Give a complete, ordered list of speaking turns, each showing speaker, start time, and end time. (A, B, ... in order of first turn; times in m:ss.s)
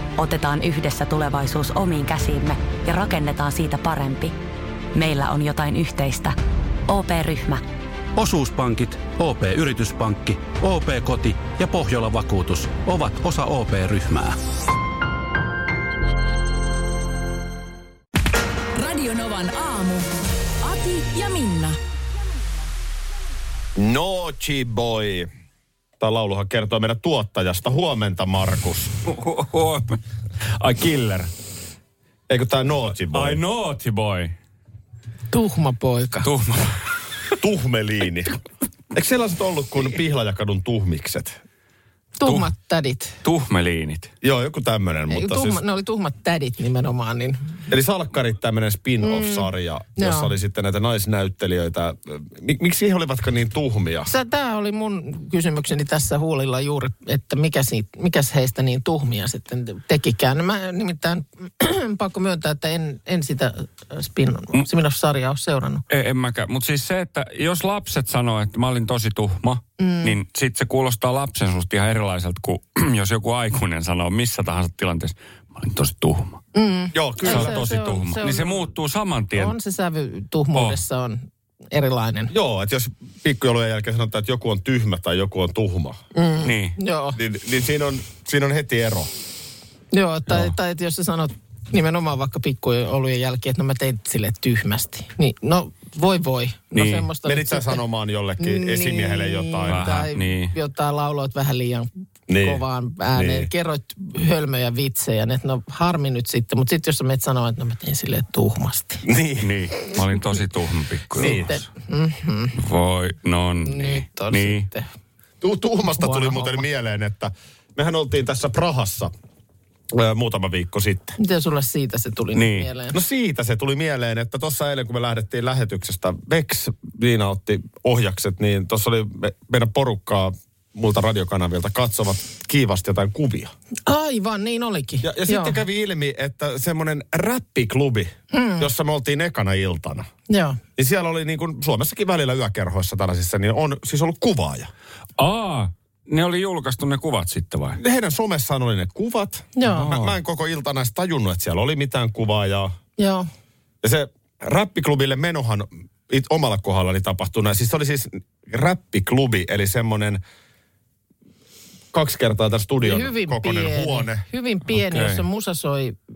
0:00.2-0:04.3 A
0:04.9-0:06.3 A
0:06.9-0:07.6 A
0:08.2-0:14.4 B
0:18.7-0:20.1 C
0:20.6-0:21.8 C
0:23.7-0:25.3 D
0:26.0-0:29.0 D
0:29.0-0:30.0 E
0:30.6-0:31.3 E
0:32.3-0:33.4 D
0:33.1-0:34.3 E
0:35.3-0:36.3 F
0:36.2-0:36.9 E
0:37.4-0:38.4 D
0:38.9-0:41.4 D
0:42.2-0:43.1 F
0:43.2-0:44.1 E
0:44.2-0:45.6 D
0:45.1-0:47.6 F
0:47.7-0:54.1 D
0:49.0-0:50.3 F
0:54.1-1:05.8 F
1:05.9-1:16.4 E
1:09.8-1:10.2 F
1:16.5-1:18.7 F
1:16.9-1:17.7 D
1:17.2-1:19.5 E
1:19.3-1:22.3 F
1:20.5-1:20.8 E
1:22.3-1:26.0 D
1:26.1-1:27.2 F
1:26.4-1:26.8 E
1:27.2-1:29.1 D
1:29.9-1:37.8 F
1:30.3-1:30.5 E
1:36.7-1:37.1 E
1:37.2-1:39.8 D
1:38.4-1:41.9 F
1:39.7-1:40.5 E
1:42.3-1:42.6 D
1:42.4-1:49.0 F
1:43.1-1:43.5 D
1:49.0-1:49.6 D
1:49.4-1:51.6 E
1:51.1-1:51.6 D
1:51.2-1:52.6 F
1:52.6-1:54.7 E
1:53.6-1:54.9 F
1:55.4-1:59.1 D
1:56.0-1:56.6 F
1:59.9-2:01.2 D
2:01.2-2:03.0 F
2:02.3-2:02.7 E
2:02.9-2:13.5 D
2:13.9-2:15.6 F
2:15.0-2:20.1 D
2:18.3-2:18.7 F
2:20.3-2:20.6 F
2:20.8-2:24.7 D
2:25.2-2:27.8 E
2:27.8-2:32.7 D
2:29.6-2:30.1 F
2:33.0-2:33.3 F
2:33.8-2:40.2 D
2:41.9-2:44.2 D
2:42.8-2:46.0 F
2:44.8-2:45.2 E